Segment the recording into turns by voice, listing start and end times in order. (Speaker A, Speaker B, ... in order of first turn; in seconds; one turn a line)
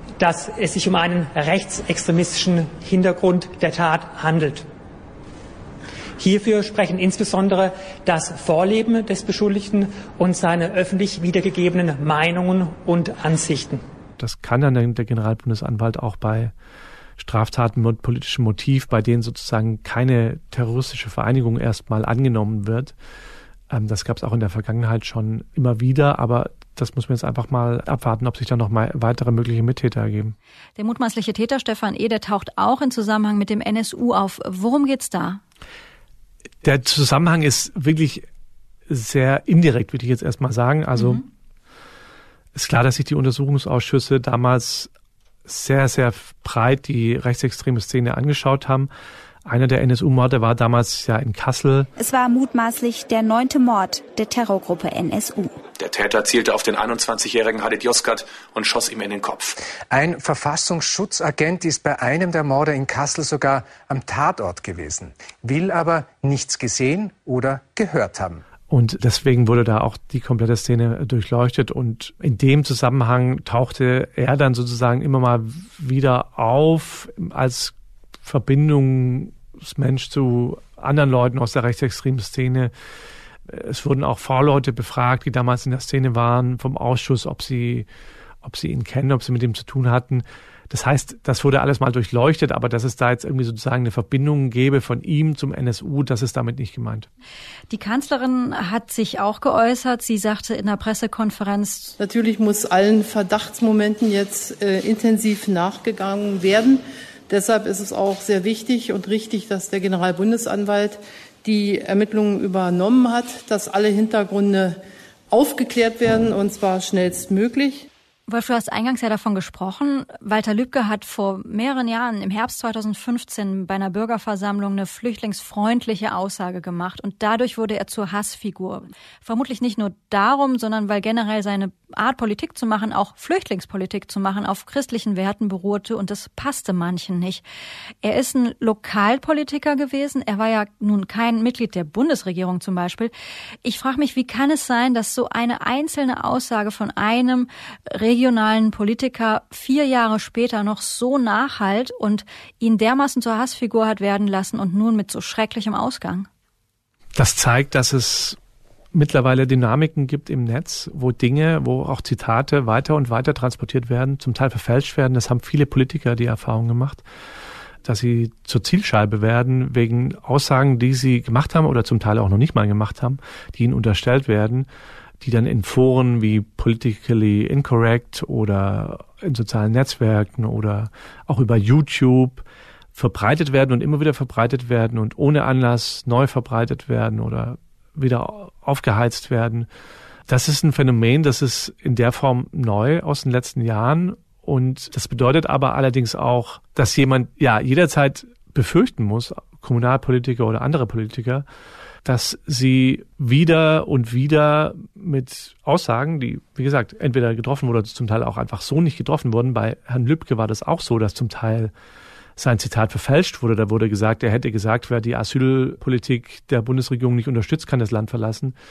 Speaker A: 0.2-4.7
Speaker A: 6.2-13.8
Speaker B: 14.2-16.5
Speaker B: 17.2-22.9
Speaker B: 23.7-30.4
Speaker C: 30.8-35.4
Speaker B: 36.6-38.3
Speaker B: 38.9-41.2
Speaker B: 42.5-44.9
Speaker B: 45.5-48.9
Speaker B: 49.5-51.9
Speaker D: 52.0-55.5
Speaker E: 55.7-59.6
Speaker F: 59.9-68.4
Speaker B: 68.7-82.7
Speaker B: 83.5-87.9
Speaker B: 88.4-97.1
Speaker C: 97.7-102.0
Speaker G: 102.0-114.8
Speaker G: 115.3-117.9
Speaker C: 118.3-137.4
Speaker C: 138.0-143.1
Speaker C: 143.6-156.3
Speaker B: 157.2-158.4
Speaker B: 158.9-167.0
Speaker B: 167.8-174.7
Speaker B: 175.2-189.7
Speaker B: 190.3-201.4
Speaker B: 202.0-211.7
Speaker B: 212.4-218.6